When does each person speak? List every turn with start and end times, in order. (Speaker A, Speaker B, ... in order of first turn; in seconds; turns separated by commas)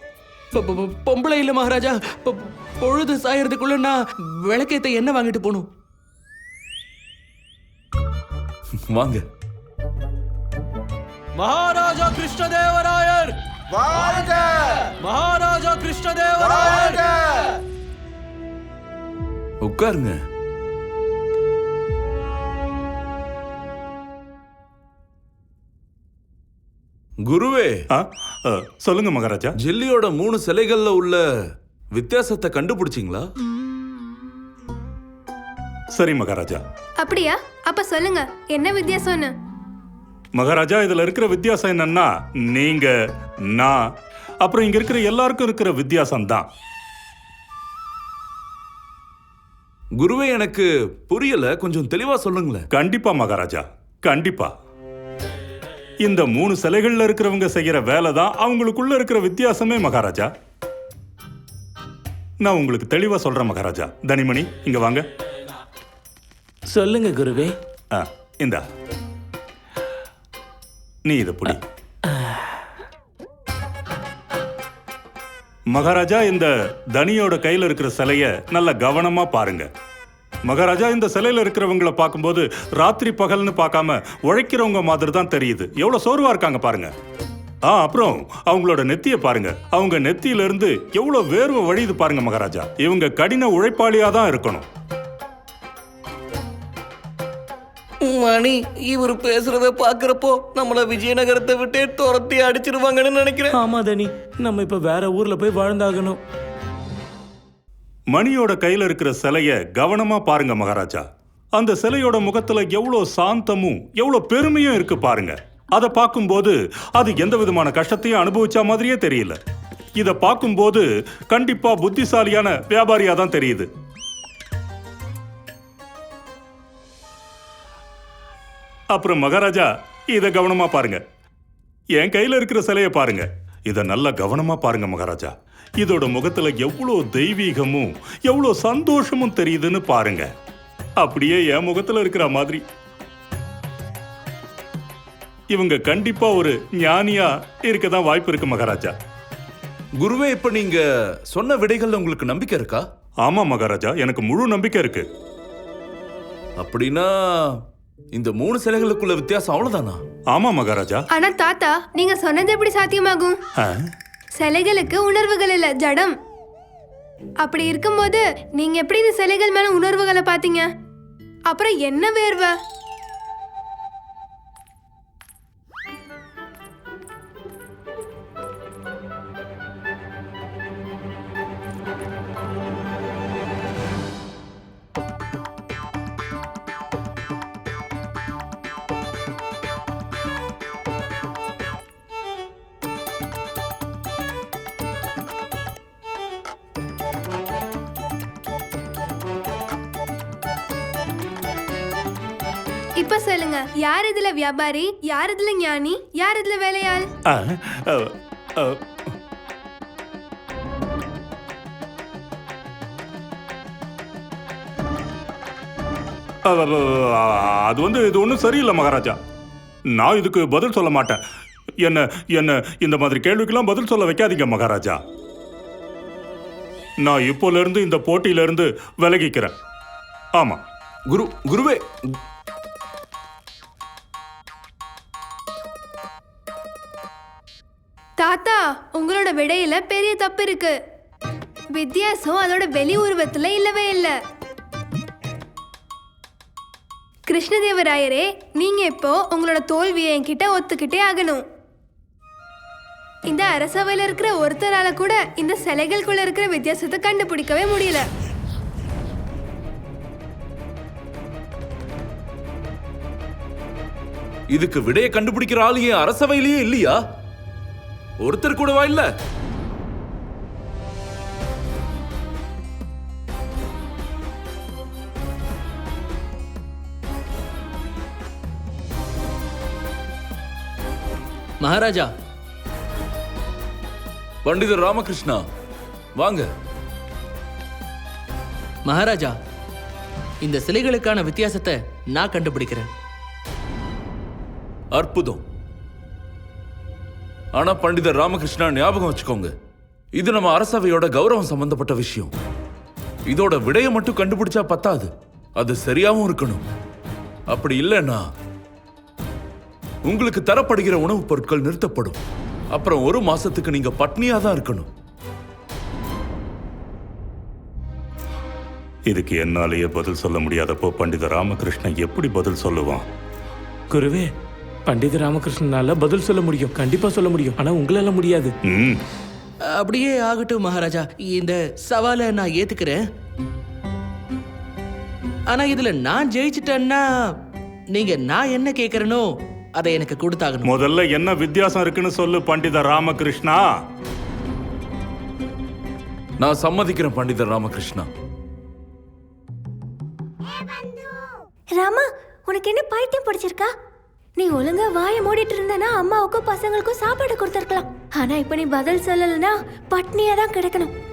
Speaker A: 0.5-5.7, Speaker B: 8.9-9.2, Speaker A: 11.6-13.3, Speaker A: 15.2-17.0, Speaker B: 19.6-20.2, Speaker B: 27.3-27.8, Speaker C: 27.9-29.5, Speaker B: 29.6-31.2, Speaker B: 31.9-33.2, Speaker C: 36.0-36.6, Speaker D: 37.0-39.3, Speaker C: 40.4-42.9, Speaker C: 43.5-43.8, Speaker C: 44.4-46.5, Speaker B: 50.0-52.6, Speaker C: 52.7-54.5, Speaker C: 56.0-60.3, Speaker C: 62.4-65.0, Speaker E: 66.7-67.5, Speaker C: 67.9-68.6, Speaker C: 71.1-71.6, Speaker E: 72.1-72.4, Speaker C: 75.7-79.7, Speaker C: 80.5-86.9, Speaker C: 87.7-94.7, Speaker F: 98.0-103.5, Speaker E: 103.5-106.2, Speaker C: 108.1-111.0, Speaker C: 111.5-119.4, Speaker C: 120.0-123.7, Speaker C: 128.9-131.0, Speaker C: 132.0-140.3, Speaker C: 141.0-142.6, Speaker C: 145.5-148.9, Speaker B: 150.0-152.8, Speaker C: 153.2-155.0, Speaker B: 156.6-157.6, Speaker B: 158.1-160.0, Speaker C: 160.3-161.0, Speaker D: 161.1-163.4, Speaker C: 163.6-163.9, Speaker D: 164.4-166.1, Speaker D: 167.4-170.7, Speaker D: 171.5-172.5, Speaker D: 203.0-207.1, Speaker C: 207.3-208.8, Speaker C: 216.5-219.2, Speaker C: 219.9-221.2, Speaker C: 221.8-225.0, Speaker C: 227.0-229.5, Speaker B: 231.1-232.2, Speaker D: 238.2-240.7, Speaker D: 241.8-244.1, Speaker D: 247.3-251.4, Speaker D: 253.3-258.1, Speaker B: 264.5-267.0, Speaker B: 268.2-269.1, Speaker A: 281.6-282.1, Speaker B: 284.4-285.4, Speaker B: 286.2-286.5, Speaker A: 288.9-289.3, Speaker A: 290.4-292.9, Speaker B: 294.9-295.4, Speaker B: 297.6-299.5, Speaker B: 300.1-302.3, Speaker B: 303.3-306.6, Speaker B: 307.5-308.2, Speaker B: 310.1-312.2, Speaker B: 312.7-314.9, Speaker C: 319.1-323.0, Speaker E: 323.9-324.3, Speaker E: 324.9-328.5, Speaker C: 328.7-329.0, Speaker A: 329.7-333.0, Speaker A: 335.5-337.0, Speaker A: 337.9-339.2, Speaker A: 339.8-340.7, Speaker C: 340.6-343.6, Speaker B: 346.4-348.1, Speaker G: 351.8-353.7, Speaker G: 354.4-360.9